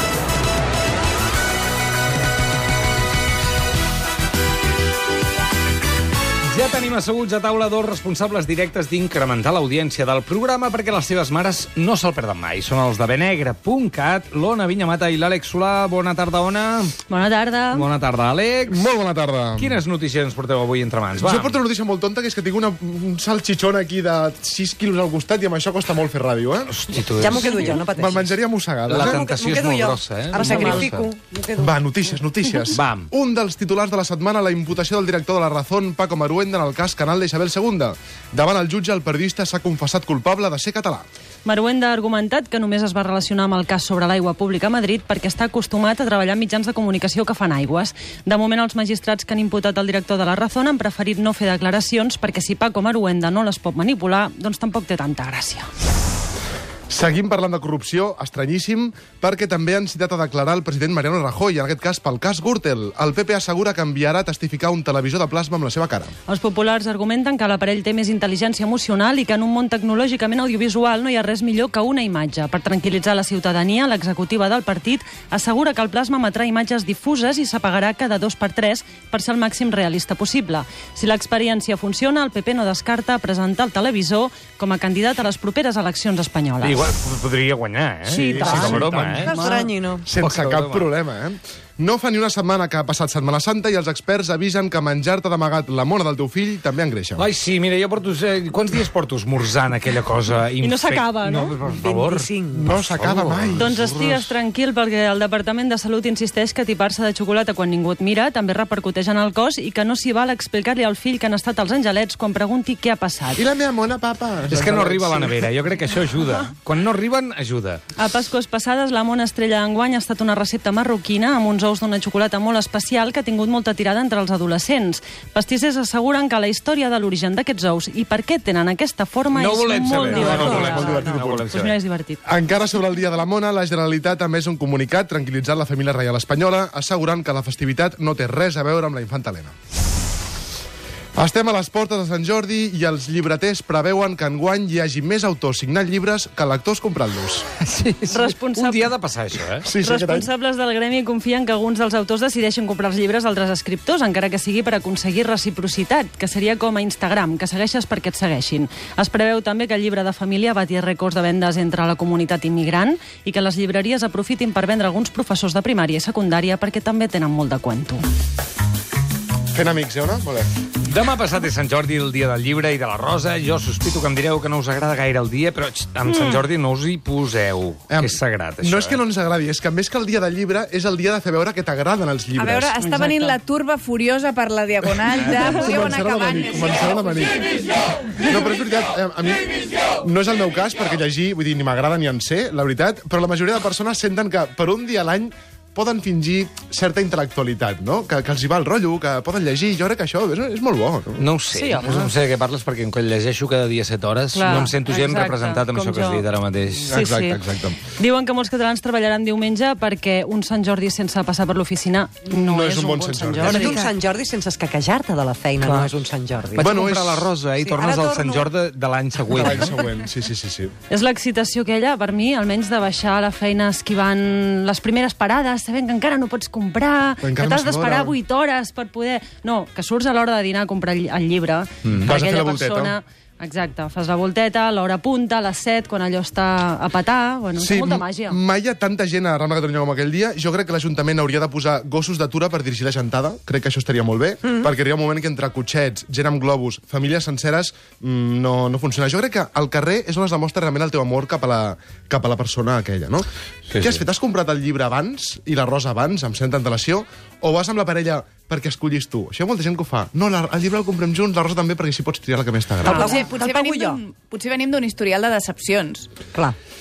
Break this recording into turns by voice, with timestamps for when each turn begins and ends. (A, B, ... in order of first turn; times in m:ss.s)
0:06.5-0:17.0 A
0:17.1-0:17.9 B
0:17.7-0:18.9 A
0:18.7-0:19.8 C
0:19.5-0:21.6 A
0:21.1-0:26.8 C
0:26.7-0:27.8 A
0:27.0-0:32.1 D
0:27.9-0:29.2 C
0:28.9-0:31.1 A
0:30.4-0:30.9 C
0:31.6-0:41.1 C
0:32.7-0:33.1 A
0:41.4-0:55.7 B
0:56.9-1:06.1 C
1:06.3-1:26.8 B
1:26.6-1:29.3 A
1:28.0-1:29.7 B
1:28.4-1:29.3 C
1:29.2-1:30.1 D
1:30.0-1:37.3 C
1:30.2-1:31.0 A
1:37.1-1:43.7 A
1:40.6-1:41.6 B
1:41.6-1:42.8 D
1:42.5-1:44.3 C
1:43.6-1:53.4 B
1:53.4-1:55.4 C
1:54.5-1:57.8 A
1:58.0-2:12.2 B
2:09.3-2:11.7 A
2:10.0-2:11.5 C
2:10.1-2:10.9 D
2:12.2-2:19.5 C
2:21.2-2:27.5 C
2:27.7-2:29.7 A
2:28.1-2:28.9 B
2:29.6-2:30.3 C
2:29.8-2:48.0 B
2:49.5-2:50.5 C
2:50.8-2:59.0 A
2:57.9-3:02.8 C
3:02.3-3:07.2 E
3:02.8-3:03.3 B
3:05.3-3:07.5 C
3:08.1-3:21.3 C
3:21.2-3:27.0 A
3:21.5-3:22.0 B
3:24.3-3:26.2 B
3:26.9-3:27.8 C
3:26.9-3:27.4 B
3:28.0-3:33.8 B
3:32.4-3:33.9 C
3:33.4-3:36.8 D
3:35.6-3:36.0 A
3:36.5-3:39.8 A
3:36.6-3:37.4 C
3:37.6-3:38.5 D
3:39.3-3:40.7 C
3:40.9-3:58.4 B
3:47.2-3:48.1 C
3:51.9-3:53.0 C
3:57.6-4:23.1 C
4:13.7-4:14.0 A
4:22.8-4:24.0 D
4:22.9-4:26.1 E